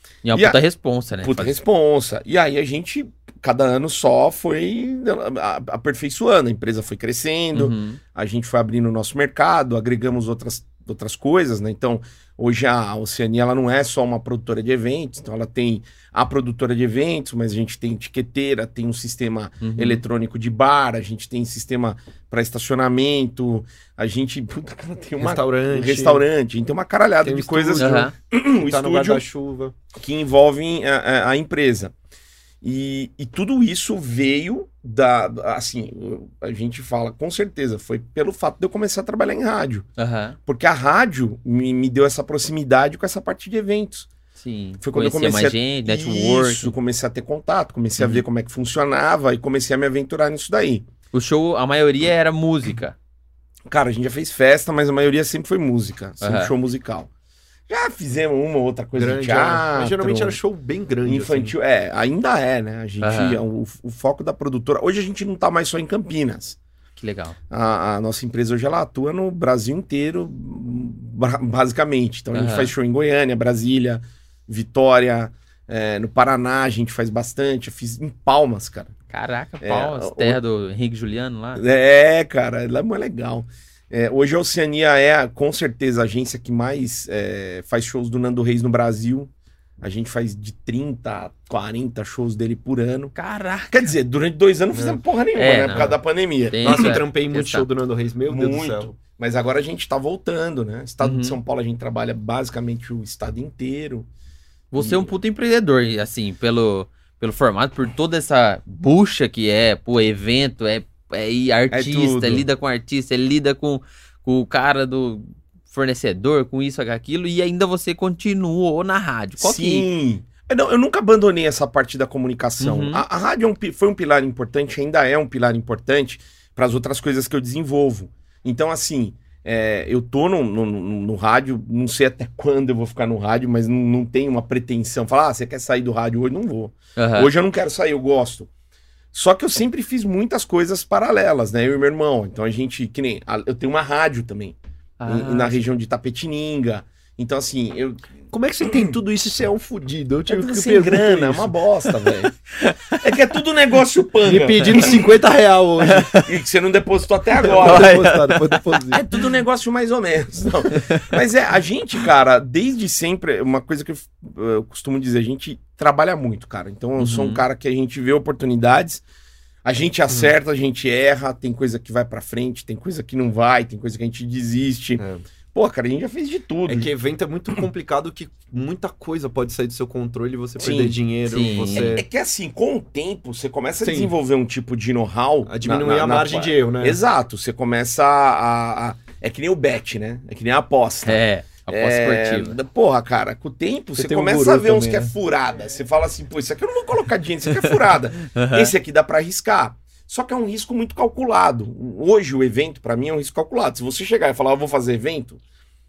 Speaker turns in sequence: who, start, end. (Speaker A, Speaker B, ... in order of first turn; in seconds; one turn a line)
Speaker A: 0.2-1.6
Speaker B: 1.2-29.2
Speaker A: 7.5-8.0
Speaker A: 19.6-20.0
Speaker C: 25.2-26.2
Speaker C: 27.2-29.8
Speaker A: 27.8-28.1
Speaker B: 29.9-31.9
Speaker B: 32.6-39.9
Speaker A: 40.0-40.4
Speaker B: 40.5-44.1
Speaker A: 44.4-46.7
Speaker B: 44.8-50.8
Speaker A: 48.0-48.2
Speaker A: 51.1-53.0
Speaker B: 53.7-57.1
Speaker A: 56.2-56.5
Speaker B: 57.7-60.4
Speaker C: 59.0-61.6
Speaker B: 61.0-66.6
Speaker A: 63.0-63.4
Speaker A: 67.0-67.4
Speaker B: 67.5-78.9
Speaker A: 72.3-72.7
Speaker A: 79.1-81.6
Speaker B: 79.6-80.4
Speaker B: 81.6-89.3
Speaker B: 89.8-93.1
Speaker A: 93.2-93.9
Speaker B: 93.7-97.0
Speaker C: 94.7-95.0
Speaker A: 95.4-95.9
Speaker A: 96.5-97.7
Speaker C: 96.6-98.9
Speaker B: 98.3-104.1
Speaker A: 101.0-101.4
Speaker A: 104.7-119.9
Speaker B: 104.8-105.1
Speaker C: 111.7-112.4
Speaker B: 111.8-112.3
Speaker B: 119.4-138.5
Speaker A: 122.6-123.0
Speaker A: 137.0-137.3
Speaker B: 139.1-144.6
Speaker A: 145.0-145.6
Speaker B: 145.1-148.1
Speaker C: 148.3-151.5
Speaker B: 148.6-148.9
Speaker B: 150.3-152.3
Speaker A: 152.5-153.0
Speaker B: 153.0-155.1
Speaker C: 154.2-156.1
Speaker A: 155.8-156.3
Speaker B: 156.2-158.0
Speaker C: 157.4-159.0
Speaker A: 157.4-158.8
Speaker B: 158.9-169.0
Speaker A: 160.7-161.1
Speaker A: 167.0-167.4
Speaker B: 169.7-176.9
Speaker C: 175.0-175.3
Speaker C: 176.7-182.1
Speaker B: 180.6-181.0
Speaker A: 181.3-182.0
Speaker B: 181.7-205.4
Speaker C: 183.8-184.1
Speaker C: 185.5-187.0
Speaker A: 191.1-192.6
Speaker C: 194.0-195.1
Speaker A: 198.3-198.7